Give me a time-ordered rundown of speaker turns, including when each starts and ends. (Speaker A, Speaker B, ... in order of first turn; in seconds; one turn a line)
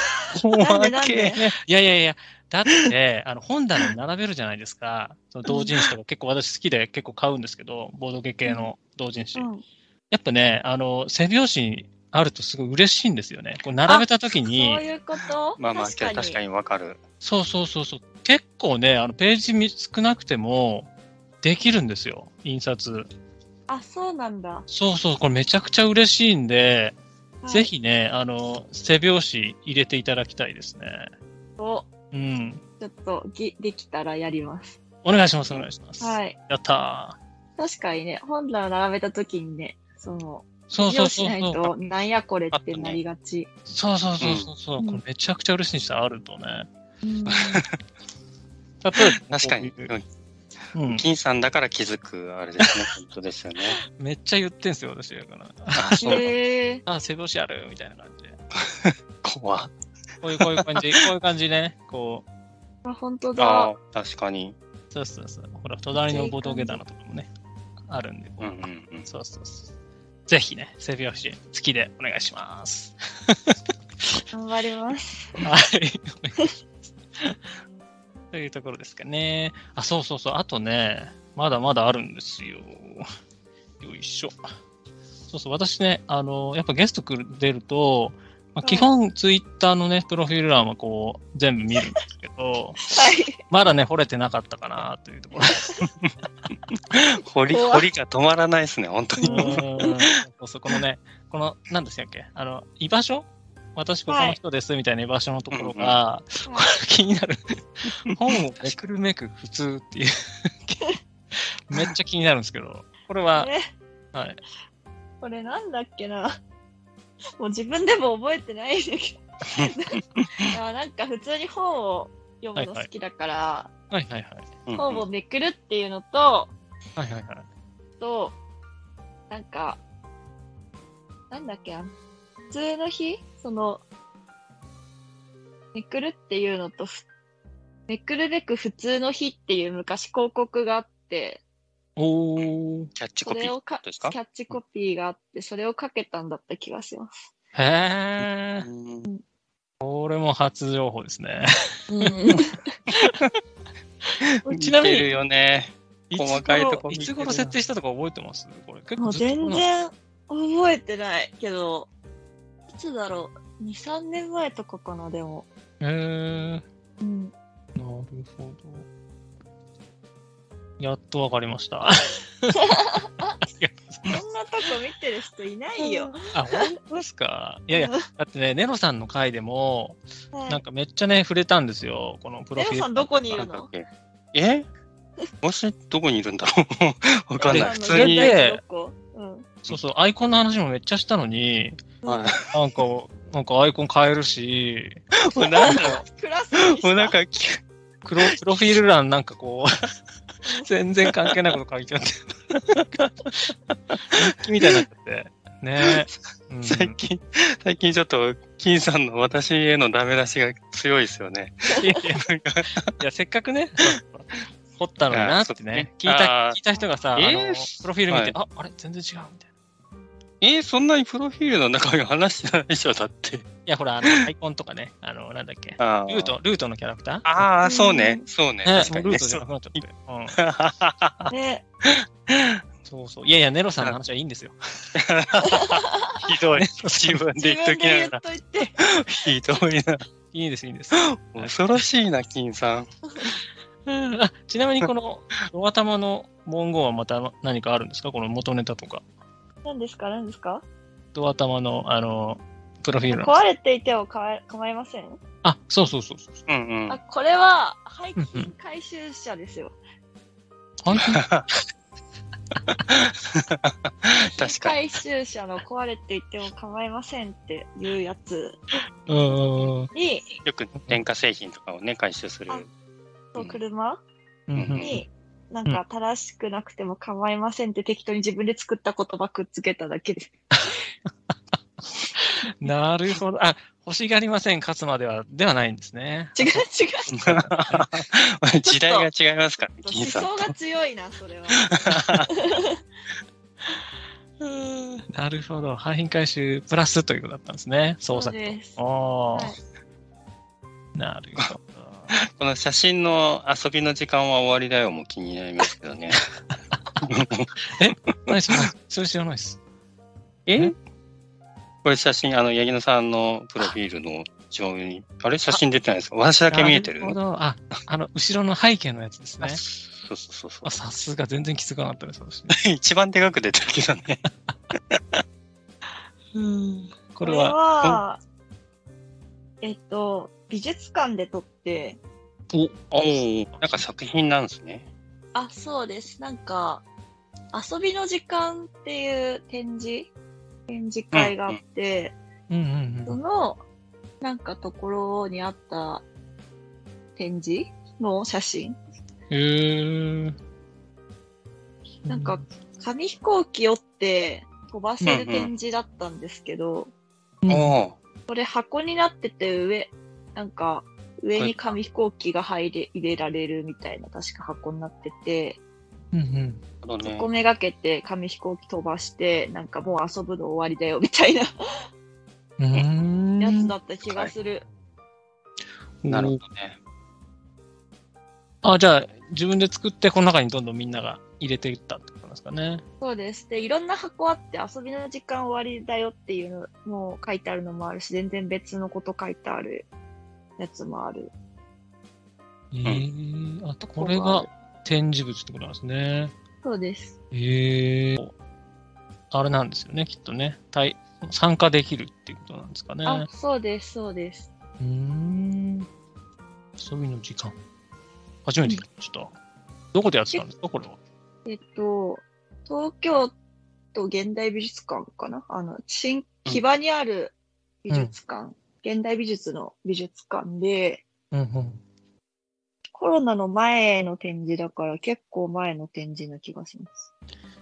Speaker A: 0.3-1.6
Speaker B: 0.6-1.4
Speaker C: 1.6-9.5
Speaker B: 5.5-5.7
Speaker B: 9.3-9.6
Speaker C: 10.1-14.8
Speaker B: 13.9-16.4
Speaker A: 15.6-17.0
Speaker C: 17.2-20.9
Speaker C: 21.4-23.1
Speaker B: 23.7-24.7
Speaker C: 24.7-27.0
Speaker B: 27.4-27.7
Speaker C: 27.5-31.1
Speaker B: 31.6-31.9
Speaker C: 32.1-32.6
Speaker B: 32.8-34.8
Speaker C: 35.0-37.2
Speaker B: 36.0-36.4
Speaker B: 37.6-43.5
Speaker C: 40.7-41.7
Speaker A: 42.5-43.0
Speaker C: 43.7-46.7
Speaker A: 44.2-44.5
Speaker B: 47.0-47.6
Speaker A: 47.4-47.6
Speaker C: 48.8-49.9
Speaker A: 49.2-50.0
Speaker C: 50.7-51.0
Speaker A: 50.9-53.8
Speaker C: 54.0-56.3
Speaker A: 55.7-56.3
Speaker B: 56.0-56.8
Speaker C: 56.9-58.4
Speaker A: 58.6-59.7
Speaker C: 60.2-62.2
Speaker A: 60.4-61.0
Speaker B: 62.8-63.7
Speaker A: 63.4-64.6
Speaker C: 64.9-67.3
Speaker B: 66.0-66.8
Speaker C: 67.9-69.7
Speaker A: 68.4-69.1
Speaker C: 70.3-73.5
Speaker B: 74.3-75.4
Speaker C: 75.4-76.5
Speaker C: 78.3-83.1
Speaker C: 83.8-84.3
Speaker C: 85.3-92.9
Speaker B: 88.6-88.9
Speaker B: 92.9-93.4
Speaker C: 93.5-95.8
Speaker B: 95.5-95.8
Speaker A: 96.9-99.9
Speaker B: 97.5-97.9
Speaker B: 99.2-100.0
Speaker C: 99.2-110.8
Speaker B: 104.1-104.4
Speaker A: 105.5-106.0
Speaker B: 106.5-106.7
Speaker A: 108.3-108.8
Speaker C: 111.3-113.5
Speaker B: 113.3-113.6
Speaker B: 115.2-116.4
Speaker B: 117.4-123.7
Speaker A: 119.5-120.5
Speaker C: 122.6-122.9
Speaker C: 123.9-124.5
Speaker A: 124.7-125.0
Speaker B: 124.8-126.5
Speaker C: 127.0-127.5
Speaker B: 128.0-128.4
Speaker B: 129.3-129.8
Speaker B: 131.3-131.9
Speaker B: 132.5-133.8
Speaker B: 135.7-137.1
Speaker B: 137.9-141.4
Speaker C: 142.0-142.9
Speaker A: 142.4-144.2
Speaker B: 143.2-147.1
Speaker C: 147.6-148.7
Speaker A: 148.2-149.1
Speaker C: 149.8-152.1
Speaker B: 151.9-152.6
Speaker C: 154.4-155.1
Speaker A: 154.5-157.6
Speaker C: 156.1-159.7
Speaker B: 159.0-161.9
Speaker B: 162.7-165.5
Speaker C: 165.8-166.6
Speaker B: 167.0-167.3
Speaker C: 167.8-168.8
Speaker C: 170.8-172.7
Speaker B: 172.6-173.3
Speaker C: 173.5-174.1
Speaker B: 174.1-176.7
Speaker C: 176.3-183.4
Speaker B: 177.7-178.0
Speaker B: 180.3-180.6
Speaker B: 182.6-183.7
Speaker A: 183.3-184.7
Speaker A: 185.4-188.3
Speaker B: 187.4-189.5
Speaker C: 187.5-188.6
Speaker C: 189.7-191.8
Speaker B: 192.0-192.3
Speaker A: 192.1-192.5
Speaker C: 192.5-195.0
Speaker A: 195.2-196.0
Speaker B: 195.6-197.2
Speaker A: 196.6-197.6
Speaker C: 198.0-199.8
Speaker C: 200.6-203.5
Speaker C: 204.1-207.0
Speaker A: 206.6-212.9
Speaker C: 211.8-212.3
Speaker C: 213.0-219.5
Speaker A: 215.1-216.6
Speaker A: 217.2-218.3
Speaker A: 220.4-223.5
Speaker C: 223.7-227.3
Speaker A: 225.8-226.4
Speaker A: 227.2-229.8
Speaker B: 227.6-228.2
Speaker C: 228.7-230.4
Speaker A: 230.4-231.3
Speaker B: 231.3-231.6
Speaker A: 231.8-232.6
Speaker C: 232.9-234.9
Speaker A: 234.9-238.2
Speaker B: 235.5-236.2
Speaker C: 236.5-237.2
Speaker B: 237.4-238.8
Speaker A: 238.8-240.1
Speaker C: 240.3-241.6
Speaker A: 241.1-242.9
Speaker C: 243.9-249.0
Speaker B: 249.7-250.6
Speaker C: 251.2-253.4
Speaker B: 253.1-255.2
Speaker C: 255.4-256.4
Speaker A: 256.5-257.0
Speaker B: 256.9-259.8
Speaker C: 258.2-258.5
Speaker C: 260.8-261.2
Speaker A: 260.9-261.5
Speaker A: 262.9-264.8
Speaker B: 264.4-268.6
Speaker C: 269.1-269.9
Speaker B: 269.9-270.4
Speaker A: 270.4-272.7
Speaker B: 273.3-274.0
Speaker C: 274.5-274.9
Speaker A: 274.6-275.0
Speaker B: 274.8-280.3
Speaker C: 282.2-287.9
Speaker B: 286.4-287.1
Speaker A: 287.1-290.5
Speaker B: 288.6-289.1
Speaker B: 289.8-292.8
Speaker A: 291.8-292.3
Speaker C: 294.4-299.5
Speaker B: 298.1-298.8
Speaker C: 301.0-302.1
Speaker A: 302.1-306.2
Speaker A: 307.0-307.5
Speaker C: 307.7-309.6
Speaker A: 308.3-308.6
Speaker A: 310.5-310.8
Speaker A: 311.8-317.2
Speaker C: 316.5-319.6
Speaker A: 319.4-320.7
Speaker C: 320.6-322.6
Speaker A: 322.5-324.2
Speaker C: 326.4-327.6
Speaker B: 327.2-328.2
Speaker B: 329.6-332.0
Speaker A: 332.9-334.9
Speaker B: 335.4-336.8
Speaker B: 337.5-340.1
Speaker B: 340.7-342.2
Speaker A: 341.1-341.6
Speaker C: 342.5-343.2
Speaker B: 343.1-343.6
Speaker B: 344.2-346.0
Speaker B: 347.2-348.8
Speaker C: 349.3-350.4
Speaker B: 352.1-356.9
Speaker C: 352.1-352.4
Speaker A: 355.1-355.5
Speaker C: 357.4-357.8
Speaker A: 357.5-358.0
Speaker B: 358.3-365.6
Speaker C: 366.1-366.6
Speaker A: 366.8-367.3
Speaker B: 367.0-371.5
Speaker C: 372.6-373.7
Speaker B: 373.4-374.6
Speaker C: 376.0-376.4
Speaker A: 376.1-376.8
Speaker C: 378.6-382.8
Speaker B: 383.0-389.9
Speaker B: 390.6-391.3
Speaker C: 392.7-396.3
Speaker B: 393.8-394.5
Speaker B: 396.6-397.2
Speaker C: 397.3-398.3
Speaker C: 399.3-403.3
Speaker B: 403.1-404.5
Speaker C: 404.8-405.9
Speaker C: 406.8-407.6
Speaker C: 408.5-409.3
Speaker C: 409.9-411.0
Speaker B: 411.5-413.3
Speaker B: 413.9-421.0
Speaker C: 421.3-421.8
Speaker B: 422.9-427.1